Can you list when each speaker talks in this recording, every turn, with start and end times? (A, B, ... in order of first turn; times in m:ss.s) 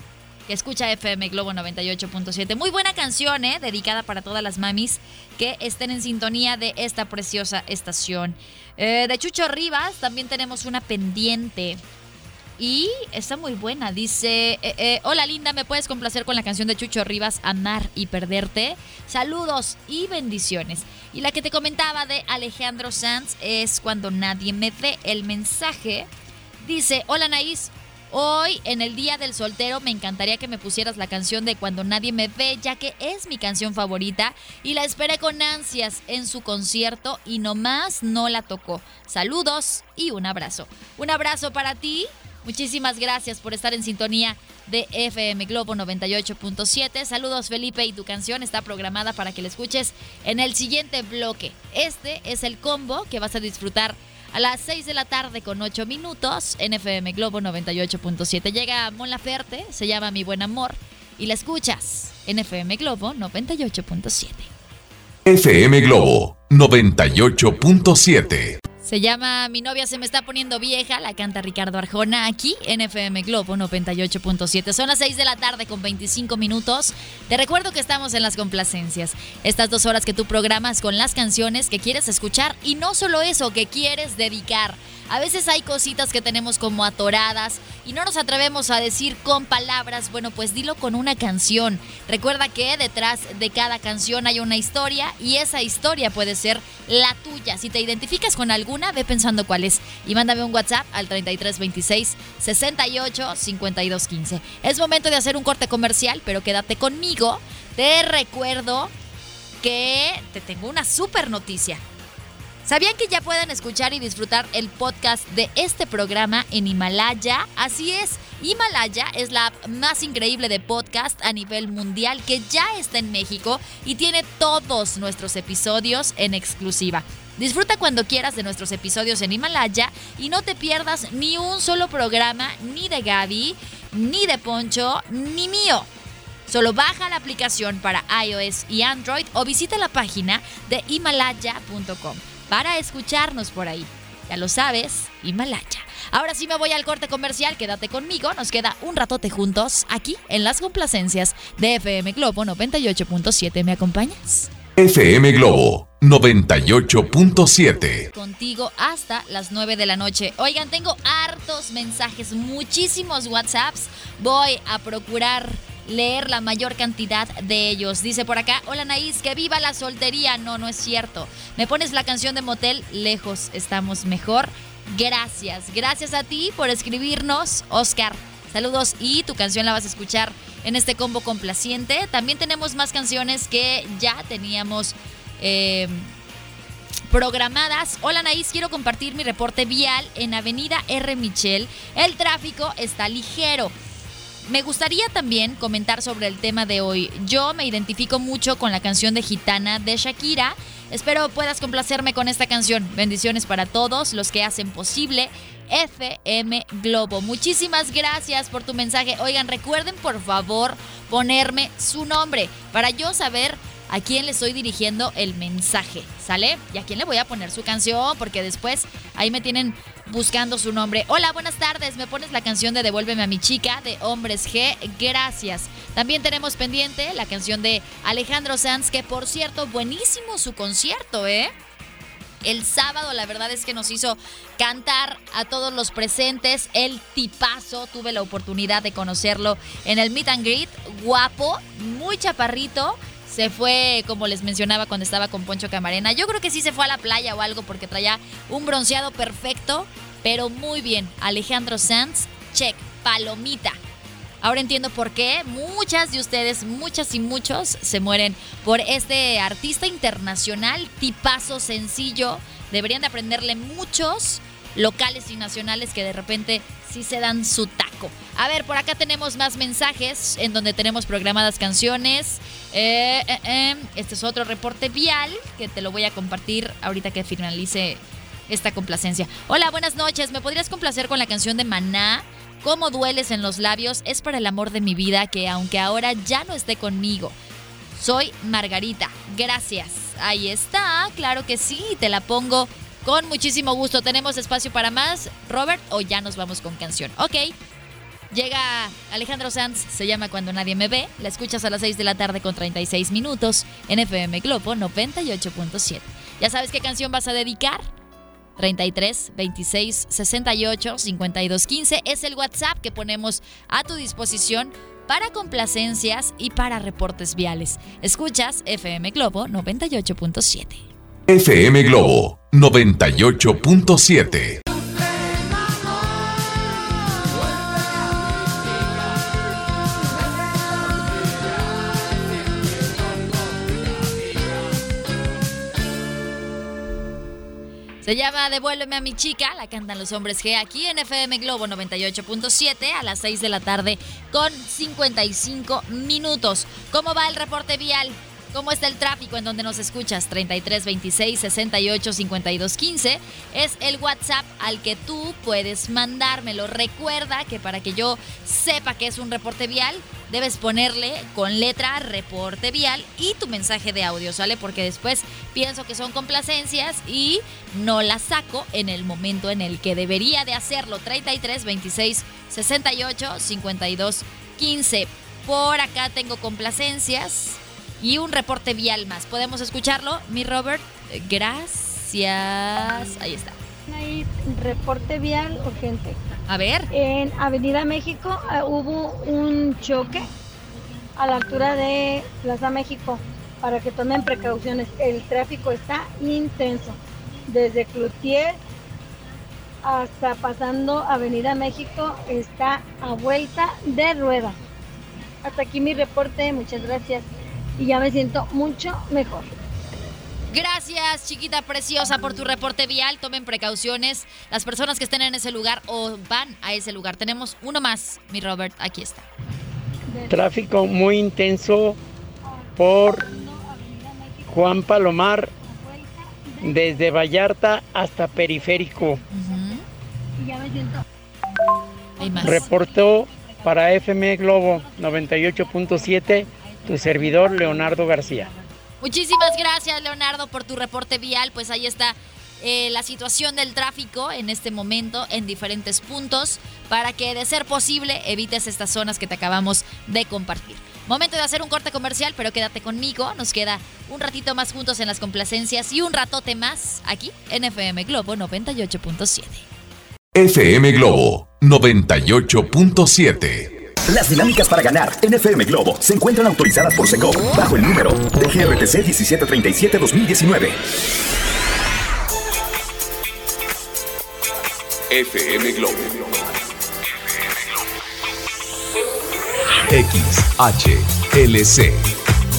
0:00.5-0:11.8 A
0:12.6-0:26.1 A
0:26.6-1:04.5 A
1:05.2-1:08.6 B
1:08.8-1:48.9 A
1:49.6-1:51.8 A
1:52.6-2:15.9 A
2:16.5-2:34.5 A
2:34.8-2:38.1 B
2:38.1-3:06.1 A
3:07.1-3:13.7 A
3:14.4-3:51.5 A
3:52.4-4:13.8 A
4:14.4-4:47.4 A
4:48.0-4:57.5 A
4:58.3-5:07.9 A
5:08.6-5:20.8 A
5:21.3-5:24.6 B
5:38.0-6:23.6 A
6:23.9-6:26.2 C
6:26.5-6:26.9 A
6:26.9-6:30.3 C
6:31.2-6:37.0 C
6:37.5-6:38.6 C
6:39.8-6:44.6 C
6:45.4-6:47.3 C
6:47.8-6:49.5 C
6:50.5-6:59.2 A
7:00.3-7:02.0 D
7:02.8-7:03.2 D
7:03.2-7:04.5 C
7:04.5-7:05.5 D
7:05.6-7:06.8 C
7:06.6-7:09.2 D
7:09.3-7:09.8 A
7:10.4-7:11.0 C
7:12.2-7:12.6 A
7:12.4-7:18.5 D
7:19.0-7:39.6 A
7:40.3-7:43.8 B
7:44.1-7:50.8 E
7:55.1-7:56.4 B
7:59.8-8:02.1 B